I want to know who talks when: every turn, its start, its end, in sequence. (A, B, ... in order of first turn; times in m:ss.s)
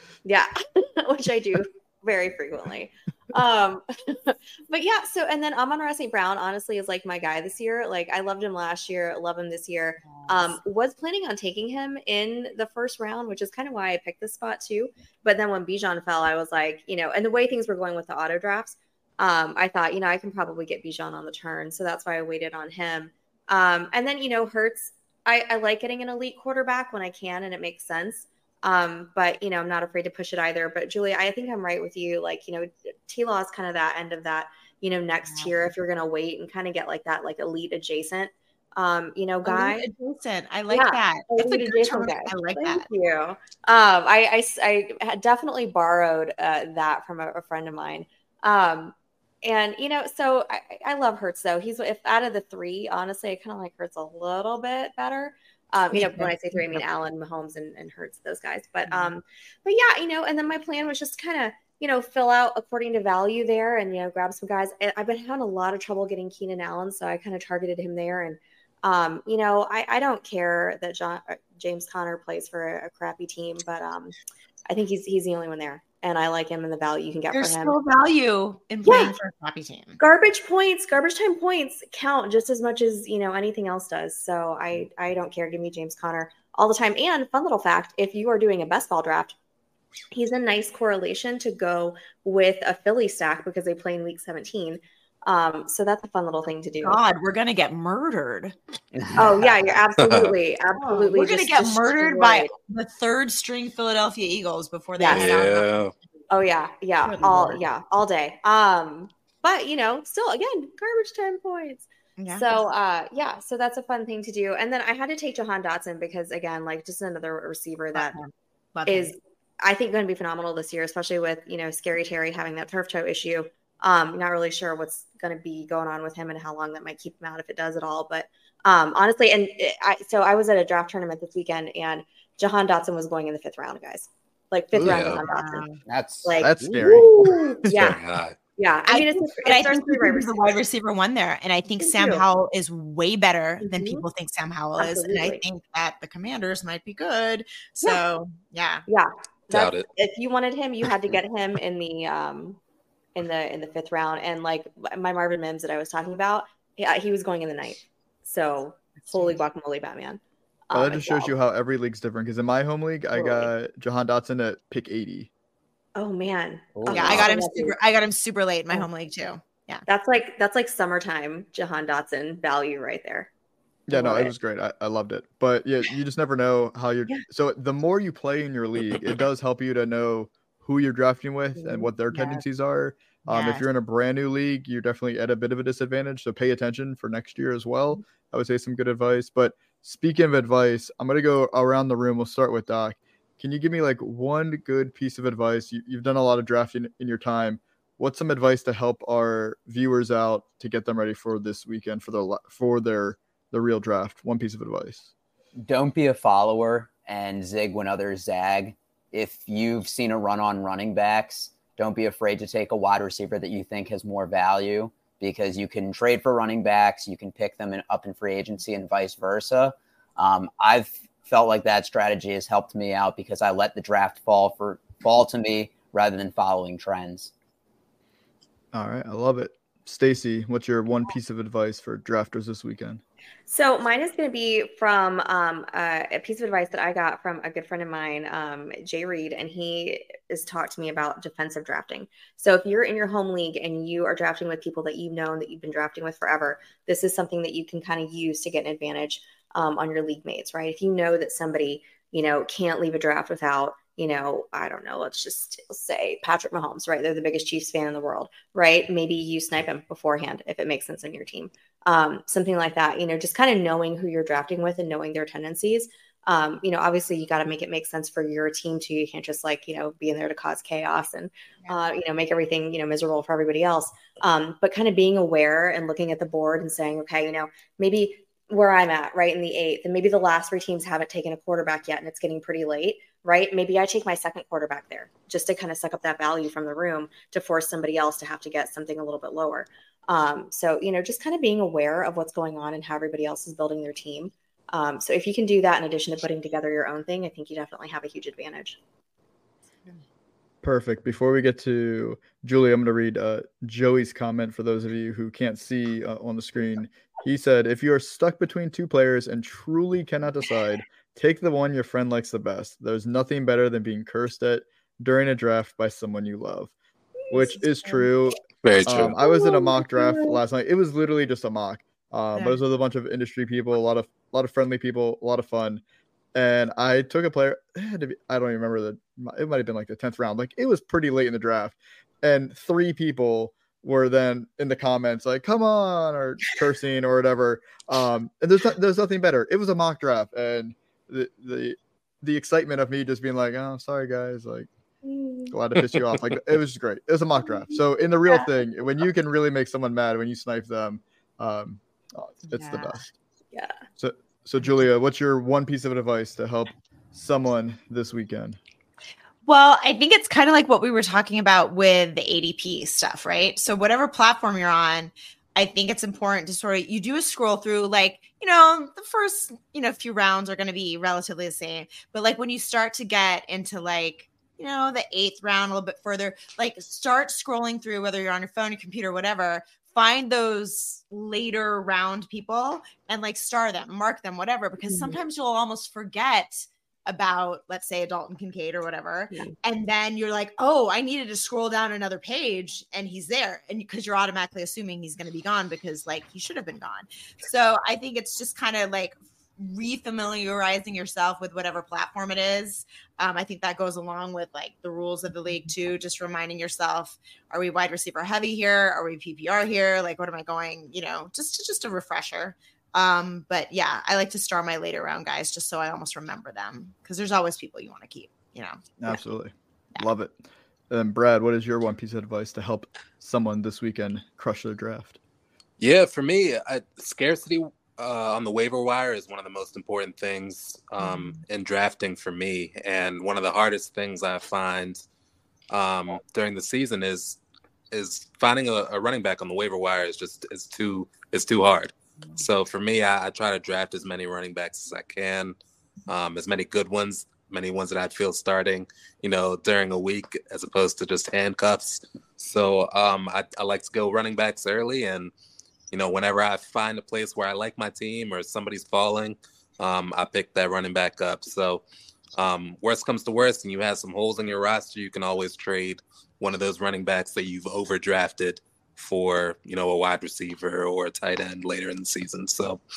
0:00.2-0:39.9 A
0:10.1-0:10.6 B
0:35.3-0:35.5 B
0:39.5-0:42.9 B
0:40.7-1:14.2 A
0:55.9-0:56.3 B
0:58.9-0:59.1 B
1:14.7-1:17.8 A
1:17.3-1:20.0 B
1:18.8-1:19.2 A
1:20.0-1:29.4 A
1:30.1-1:37.0 A
1:36.8-1:38.6 B
1:39.0-1:39.4 C
1:39.2-1:42.5 A
1:40.0-1:40.3 D
1:40.8-1:45.7 B
1:45.0-1:45.4 A
1:45.1-1:45.9 D
1:46.3-1:58.2 A
1:47.0-1:47.6 B
1:52.2-1:52.6 B
1:58.0-1:59.1 B
1:58.9-2:15.7 A
2:14.8-2:15.1 C
2:14.8-2:15.2 D
2:15.2-2:15.8 B
2:15.9-2:17.0 C
2:16.2-2:18.0 A
2:16.4-2:17.7 E
2:17.7-2:18.4 D
2:18.6-2:20.3 A
2:18.9-2:28.9 B
2:21.8-2:22.2 A
2:23.6-2:24.0 A
2:24.8-2:25.4 A
2:28.9-2:32.6 A
2:29.5-2:29.9 D
2:33.2-2:41.3 A
2:40.7-2:45.3 E
2:43.2-2:43.5 A
2:46.0-2:47.8 A
2:46.8-2:47.3 C
2:46.9-2:49.8 B
2:49.9-2:53.3 A
2:53.9-3:25.1 E
2:53.9-2:54.3 A
3:01.6-3:02.3 A
3:03.3-3:03.6 B
3:25.6-3:47.3 C
3:48.7-3:53.0 E
3:53.5-4:58.8 A
5:00.6-5:16.7 E
5:17.3-5:25.8 E
5:18.6-5:19.2 D
5:19.0-5:20.4 A
5:26.4-5:44.7 E
5:45.0-5:45.5 A
5:45.5-5:53.1 E
5:52.5-5:53.0 B
5:54.0-5:58.6 E
5:59.4-6:59.2 B
6:24.9-6:25.2 A
6:59.0-7:00.4 E
7:00.9-7:05.2 E
7:05.8-7:15.0 D
7:15.7-7:17.4 D
7:17.9-7:25.6 D
7:26.1-7:35.3 D
7:35.9-7:41.8 D
7:42.4-7:52.8 D